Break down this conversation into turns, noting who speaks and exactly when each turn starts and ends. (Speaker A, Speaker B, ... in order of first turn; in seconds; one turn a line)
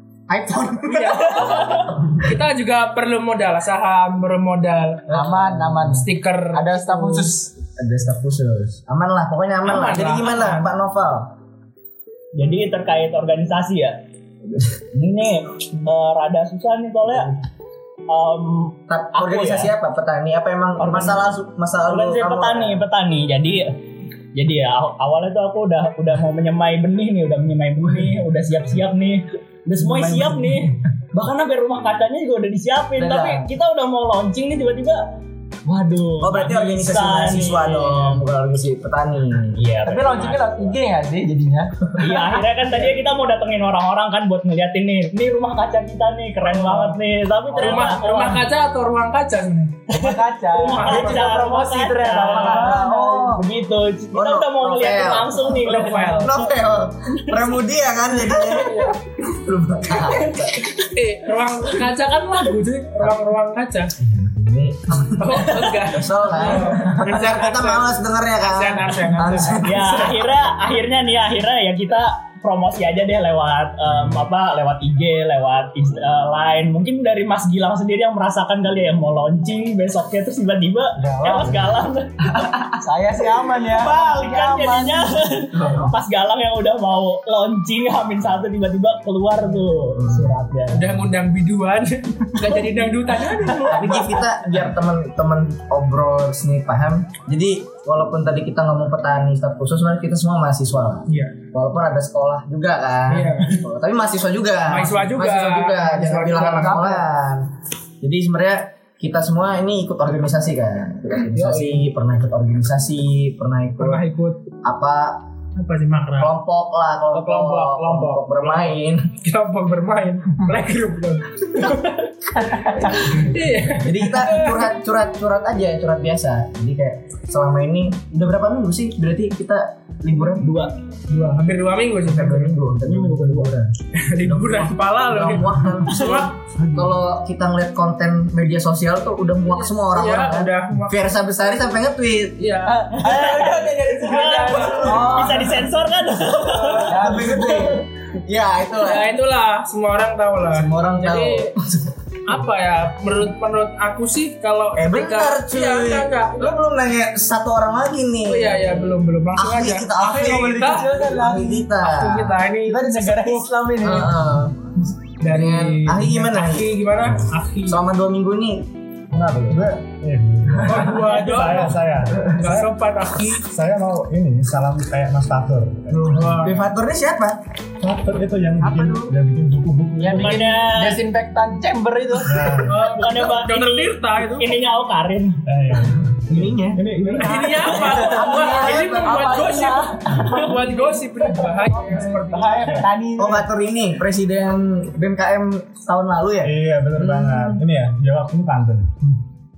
Speaker A: 0.3-2.3
Speaker B: 0.9-5.1
Speaker C: 5.1-7.5
Speaker A: 5.1-6.0
Speaker B: 5.9-7.2
Speaker A: 7.8-11.3
Speaker B: 9.6-10.7
Speaker D: 12.3-14.0
Speaker D: 14.8-17.3
Speaker D: 18.1-19.7
Speaker A: 18.9-22.9
Speaker D: 20.8-21.3
Speaker D: 21.9-23.7
Speaker D: 24.4-35.0
Speaker C: 29.8-30.7
Speaker C: 33.0-33.5
Speaker D: 35.7-38.2
Speaker A: 36.2-39.6
Speaker D: 39.5-40.8
Speaker C: 39.9-42.9
Speaker D: 42.0-48.5
Speaker C: 46.4-47.0
Speaker C: 47.5-48.0
Speaker B: 47.6-49.8
Speaker C: 49.9-53.4
Speaker D: 49.9-56.5
Speaker B: 50.6-51.4
Speaker B: 52.2-52.8
Speaker A: 54.1-60.7
Speaker B: 55.6-56.3
Speaker B: 58.5-58.9
Speaker B: 60.1-63.9
Speaker A: 64.0-70.3
Speaker B: 65.2-67.9
Speaker B: 68.4-69.6
Speaker D: 69.6-82.5
Speaker E: 81.1-81.7
Speaker C: 82.3-85.9
Speaker D: 83.6-90.9
Speaker A: 90.0-90.3
Speaker B: 90.7-94.2
Speaker A: 93.7-107.5
Speaker B: 101.1-101.3
Speaker B: 103.1-103.6
Speaker B: 104.7-107.0
Speaker C: 106.6-107.0
Speaker A: 108.0-114.0
Speaker B: 111.3-111.9
Speaker B: 113.8-114.4
Speaker A: 114.6-115.2
Speaker B: 115.6-116.3
Speaker A: 116.2-119.1
Speaker B: 117.1-124.7
Speaker A: 123.8-130.5
Speaker D: 130.4-130.7
Speaker B: 131.1-132.6
Speaker A: 132.1-142.4
Speaker C: 132.9-133.5
Speaker B: 134.0-136.3
Speaker C: 136.6-137.0
Speaker B: 139.5-141.1
Speaker B: 142.4-143.2
Speaker C: 142.7-145.6
Speaker D: 142.9-147.5
Speaker B: 143.9-145.3
Speaker A: 144.6-145.1
Speaker A: 146.7-149.1
Speaker C: 146.8-147.7
Speaker B: 148.8-151.5
Speaker A: 150.5-151.9
Speaker B: 152.3-156.6
Speaker A: 154.8-162.4
Speaker B: 158.2-160.9
Speaker C: 160.2-161.7
Speaker B: 161.8-163.5
Speaker C: 162.7-164.2
Speaker A: 163.8-164.6
Speaker B: 165.2-167.8
Speaker A: 165.2-168.7
Speaker E: 169.2-172.7
Speaker B: 170.7-173.5
Speaker E: 173.4-176.4
Speaker A: 175.9-177.4
Speaker B: 176.1-176.7
Speaker E: 177.8-180.5
Speaker C: 178.6-179.1
Speaker C: 180.0-182.6
Speaker D: 180.1-181.0
Speaker E: 182.2-182.9
Speaker B: 182.7-184.7
Speaker D: 182.8-185.4
Speaker E: 185.5-187.8
Speaker A: 186.3-189.5
Speaker C: 187.1-193.5
Speaker B: 187.2-192.9
Speaker A: 193.2-197.6
Speaker E: 196.4-198.9